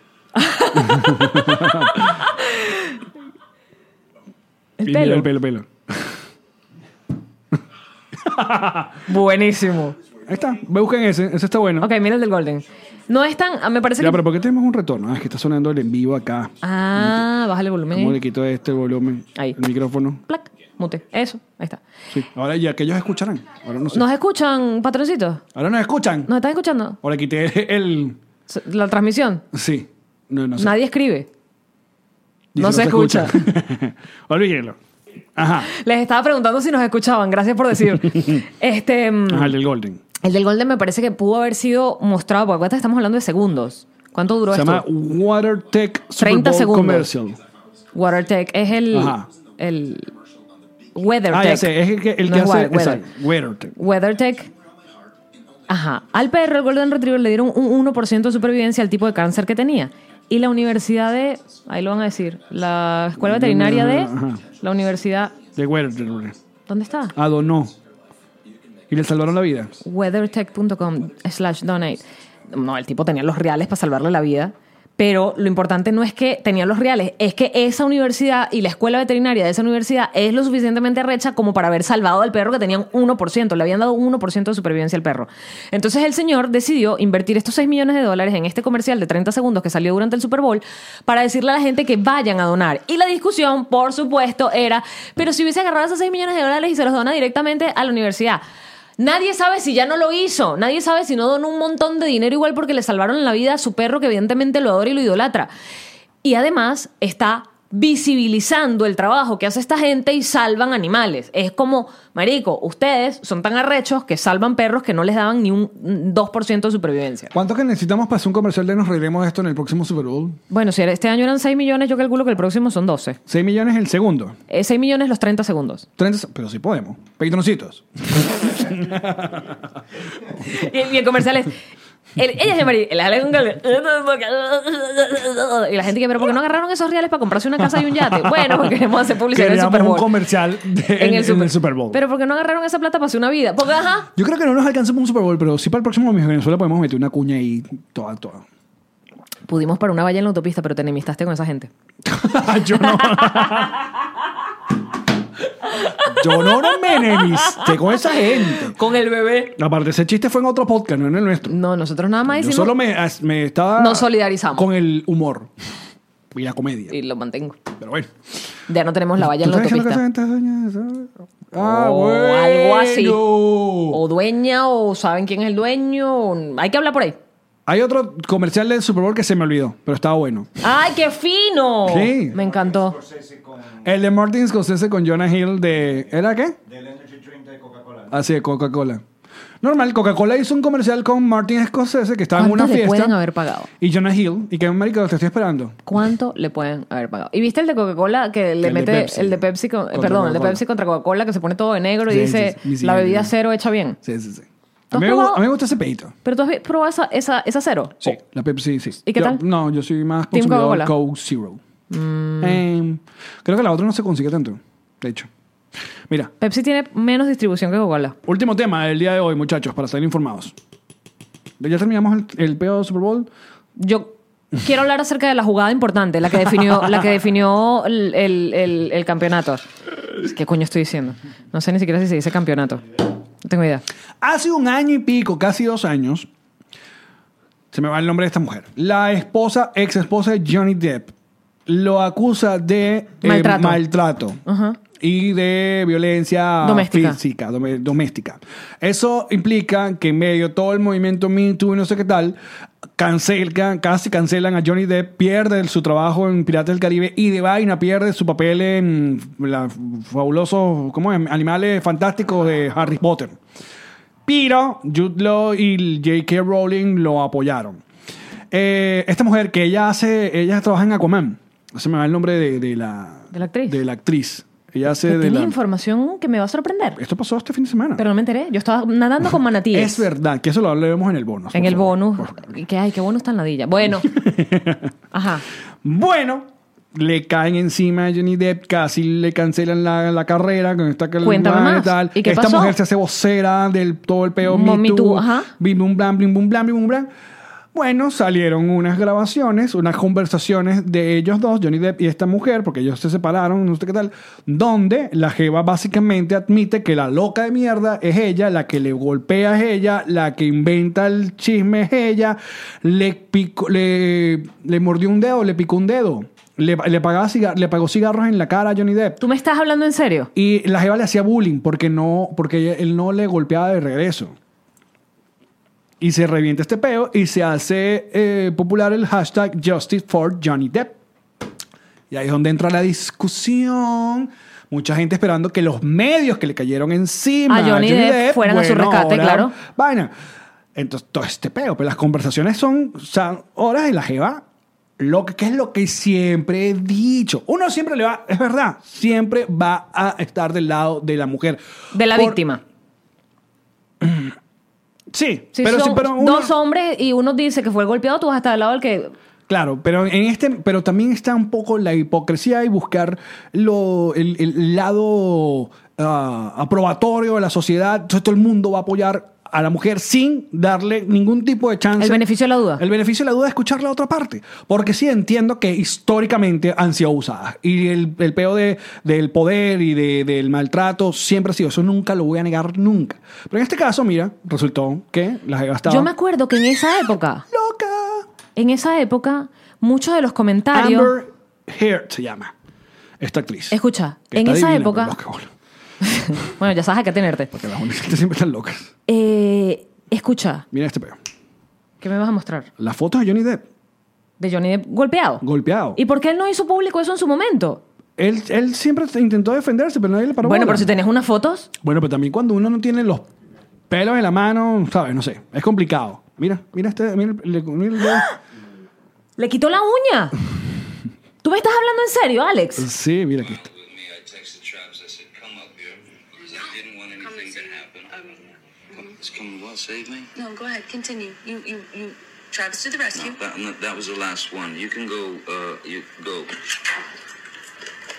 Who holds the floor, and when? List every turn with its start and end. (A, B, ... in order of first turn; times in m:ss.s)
0:00.4-0:01.5 A
0:00.7-0:02.2 B
0:02.4-0:02.9 A
0:04.8-0:05.3 A
0:04.8-0:06.2 B
0:08.2-0:09.0 B
0:09.1-0:10.0 A
0:10.2-0:11.9 B
0:11.8-0:14.2 A
0:14.0-0:17.3 B
0:16.6-0:18.2 A
0:17.9-0:20.2 B
0:20.3-0:21.8 A
0:22.1-0:24.0 B
0:23.9-0:25.4 A
0:25.5-0:26.3 B
0:26.3-0:27.0 A
0:27.0-0:28.2 B
0:28.5-0:29.4 A
0:29.5-0:30.8 B
0:30.6-0:31.3 A
0:32.5-0:34.8 B
0:32.6-0:33.4 A
0:35.4-0:35.7 B
0:35.7-0:39.5 A
0:39.3-0:40.0 B
0:40.2-0:44.9 A
0:44.5-0:47.4 B
0:46.2-0:47.1 A
0:47.9-0:50.1 A
0:48.9-0:49.3 B
0:50.9-0:51.7 A
0:51.3-0:53.8 B
0:52.2-0:53.1 A
0:53.8-0:54.5 A
0:55.7-1:05.4 A
1:03.2-1:04.4 B
1:05.5-1:06.4 B
1:06.7-1:07.2 A
1:07.1-1:07.8 B
1:08.9-1:09.8 B
1:09.8-1:38.4 A
1:39.0-1:45.5 A
1:46.2-1:57.3 A
1:57.3-2:00.4 B
2:00.5-2:03.2 A
2:03.3-2:04.4 B
2:04.5-2:05.9 A
2:06.0-2:09.7 B
2:10.3-2:11.6 A
2:12.2-2:20.1 A
2:17.6-2:18.8 B
2:19.3-2:22.0 B
2:20.8-2:24.1 A
2:24.2-2:28.4 B
2:29.5-2:31.7 A
2:32.0-2:33.8 B
2:32.8-2:33.7 A
2:35.8-2:39.6 A
2:36.0-2:38.8 B
2:39.5-2:41.5 B
2:41.5-2:42.7 A
2:42.3-2:45.5 B
2:43.8-2:44.7 A
2:46.3-2:47.0 B
2:46.9-2:47.6 A
2:47.8-2:48.1 B
2:48.7-2:50.0 A
2:49.2-2:54.0 B
2:51.6-2:53.2 A
2:53.9-2:57.2 A
2:57.7-3:00.6 B
3:00.6-3:03.0 A
3:01.8-3:02.4 B
3:02.3-3:04.0 C
3:03.8-3:06.6 B
3:06.6-3:08.2 C
3:08.1-3:09.0 B
3:09.6-3:13.2 B
3:12.4-3:13.7 A
3:13.8-3:15.8 B
3:15.9-3:24.0 A
3:18.6-3:20.6 B
3:22.1-3:23.3 B
3:24.0-3:26.2 B
3:24.9-3:25.4 A
3:26.2-3:28.2 A
3:28.0-3:31.6 B
3:29.0-3:29.4 A
3:30.3-3:30.9 A
3:31.9-3:32.6 A
3:32.4-3:35.3 B
3:36.4-3:38.2 A
3:38.2-3:40.6 B
3:41.6-3:43.3 B
3:43.8-3:52.8 A
3:53.4-3:53.8 A
3:54.2-3:56.3 B
3:57.7-4:01.1 B
4:01.7-4:04.4 B
4:03.2-4:03.8 A
4:04.5-4:04.8 A
4:05.0-4:12.4 B
4:06.6-4:07.2 A
4:13.0-4:23.4 B
4:24.3-4:27.8 B
4:28.5-4:35.6 B
4:33.3-4:33.8 A
4:35.1-4:37.0 A
4:37.0-4:38.0 B
4:38.0-4:40.1 A
4:39.7-4:42.5 B
4:41.5-4:44.1 A
4:44.0-4:44.9 B
4:45.1-4:45.4 A
4:45.8-4:57.1 B
4:51.2-4:52.8 A
4:54.4-4:55.5 A
4:57.7-5:19.2 B
5:19.2-5:20.3 A
5:20.4-5:24.4 B
5:26.0-5:31.0 B
5:32.1-5:40.1 B
5:37.5-5:39.6 A
5:40.8-5:44.4 B
5:45.0-5:52.4 B
5:51.9-5:52.6 A
5:54.0-5:54.4 B
5:55.1-5:56.5 B
5:55.5-5:59.1 A
5:59.5-6:12.2 B
6:12.0-6:12.8 A
6:12.8-6:26.1 B
6:25.9-6:27.5 A
6:27.5-6:28.3 B
6:28.6-6:31.1 A
6:30.7-6:32.5 B
6:33.2-6:33.8 B
6:33.7-6:35.2 A
6:34.3-6:35.5 B
6:36.0-6:37.5 A
6:37.5-6:38.9 B
6:39.1-6:40.7 A
6:40.7-6:41.2 B
6:42.0-6:42.7 A
6:42.8-6:43.6 B
6:44.4-6:45.4 A
6:45.4-6:46.0 B
6:46.0-6:47.8 A
6:48.2-6:51.0 B
6:50.4-6:51.7 A
6:51.8-6:53.3 B
6:53.9-6:58.3 B
6:59.4-7:00.4 A
7:01.4-7:02.9 A
7:02.8-7:03.6 B
7:03.4-7:10.3 D
7:06.5-7:08.4 E
7:10.4-7:13.4 E
7:13.1-7:16.5 D